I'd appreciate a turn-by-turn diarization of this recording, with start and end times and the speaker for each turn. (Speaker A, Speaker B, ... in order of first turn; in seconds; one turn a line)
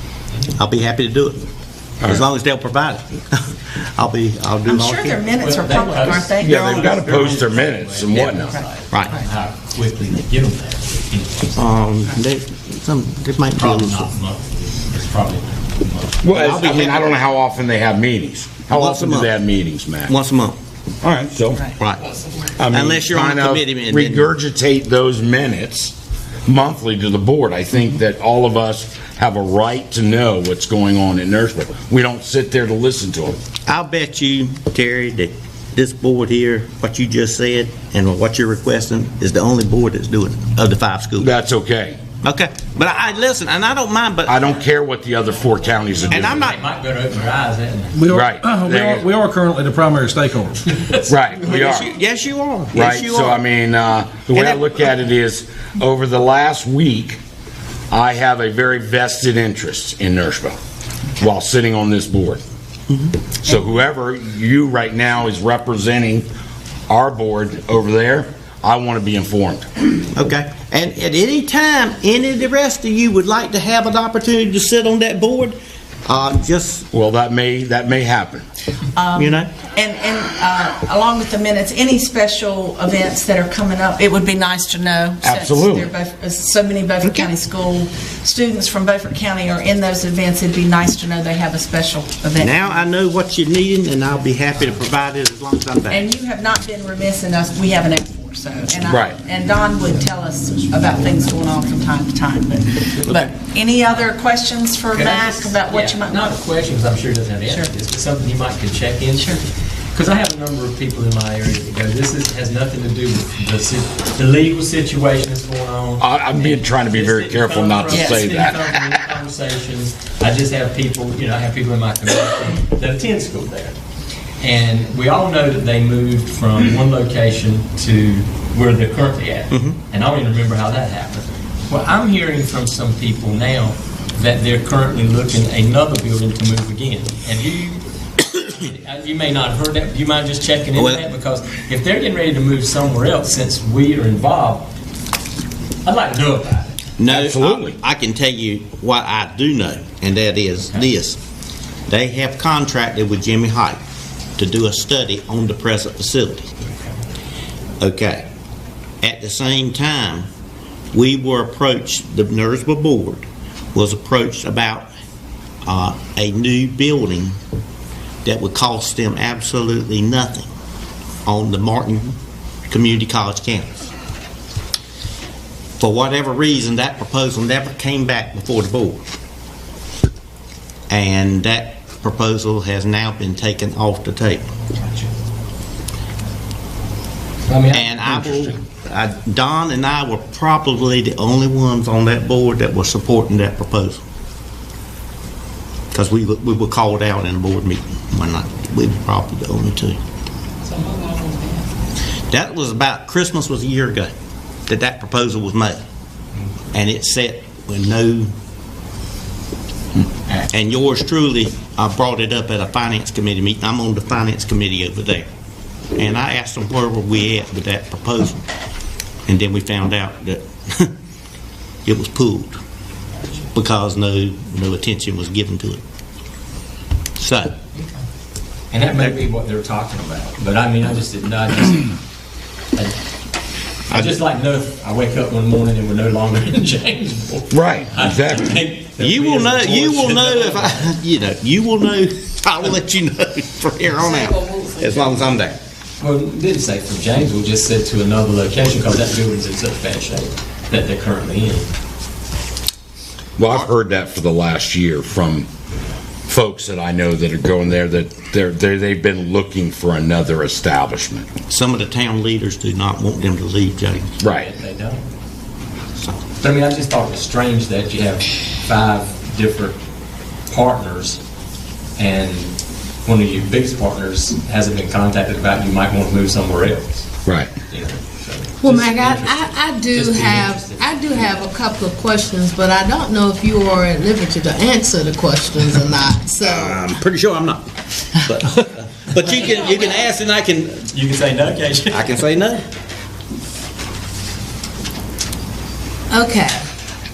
Speaker A: 0.6-1.4
Speaker A: 2.0-5.2
Speaker B: 4.7-6.5
Speaker C: 5.3-11.7
Speaker D: 6.4-8.6
Speaker A: 6.5-7.0
Speaker A: 8.9-9.2
Speaker A: 11.6-14.1
Speaker C: 13.6-16.3
Speaker D: 16.2-20.1
Speaker A: 16.3-17.1
Speaker A: 18.7-19.3
Speaker A: 20.1-20.6
Speaker D: 21.1-21.6
Speaker A: 21.8-22.0
Speaker D: 22.6-25.9
Speaker A: 22.7-24.3
Speaker D: 26.5-33.4
Speaker A: 33.7-41.3
Speaker D: 41.2-42.0
Speaker A: 42.2-44.5
Speaker D: 44.2-46.5
Speaker C: 46.1-48.0
Speaker A: 46.1-46.6
Speaker E: 47.9-50.7
Speaker D: 48.1-49.1
Speaker C: 50.7-51.0
Speaker D: 51.1-51.9
Speaker A: 51.4-53.4
Speaker D: 52.7-57.2
Speaker A: 54.3-54.7
Speaker D: 57.9-60.6
Speaker D: 61.2-62.4
Speaker A: 62.9-63.1
Speaker D: 63.4-66.3
Speaker D: 66.9-69.7
Speaker A: 70.1-76.9
Speaker D: 76.9-78.4
Speaker B: 79.0-92.6
Speaker A: 79.2-79.5
Speaker D: 85.2-85.9
Speaker A: 87.0-87.3
Speaker A: 92.4-96.1
Speaker B: 95.9-106.3
Speaker D: 98.9-99.2
Speaker C: 104.9-123.8
Speaker D: 116.0-119.0
Speaker B: 117.9-118.2
Speaker C: 124.4-144.7
Speaker A: 129.5-129.8
Speaker A: 140.8-141.0
Speaker C: 145.8-146.8
Speaker A: 147.0-151.2
Speaker D: 147.1-147.8
Speaker A: 151.9-153.8
Speaker A: 154.4-156.5
Speaker A: 157.8-158.2
Speaker A: 159.0-160.3
Speaker A: 160.9-164.9
Speaker A: 165.7-167.4
Speaker A: 168.2-170.5
Speaker A: 171.2-172.2
Speaker A: 172.7-173.9
Speaker A: 175.8-179.0
Speaker A: 180.9-184.5
Speaker C: 187.5-187.9
Speaker A: 187.7-194.0
Speaker A: 195.9-200.0
Speaker A: 202.3-204.1
Speaker A: 204.7-205.8
Speaker A: 206.7-208.3
Speaker A: 210.5-215.3
Speaker A: 216.0-218.4
Speaker A: 219.3-220.9
Speaker A: 221.8-222.6
Speaker A: 223.5-225.8
Speaker A: 227.2-227.6
Speaker C: 228.7-232.0
Speaker C: 233.9-241.0
Speaker A: 233.9-234.2
Speaker D: 237.5-238.6
Speaker A: 239.0-245.6
Speaker C: 246.0-251.7
Speaker D: 253.4-255.5
Speaker D: 256.3-261.3
Speaker A: 261.5-264.1
Speaker D: 264.2-264.5
Speaker C: 264.2-265.1
Speaker C: 266.4-269.8
Speaker C: 270.5-271.2
Speaker C: 271.9-277.1
Speaker D: 277.2-277.5
Speaker C: 277.7-281.5
Speaker F: 278.6-286.9
Speaker A: 286.4-290.8
Speaker C: 289.1-290.1
Speaker C: 290.8-292.2
Speaker A: 291.9-292.6
Speaker F: 296.1-296.7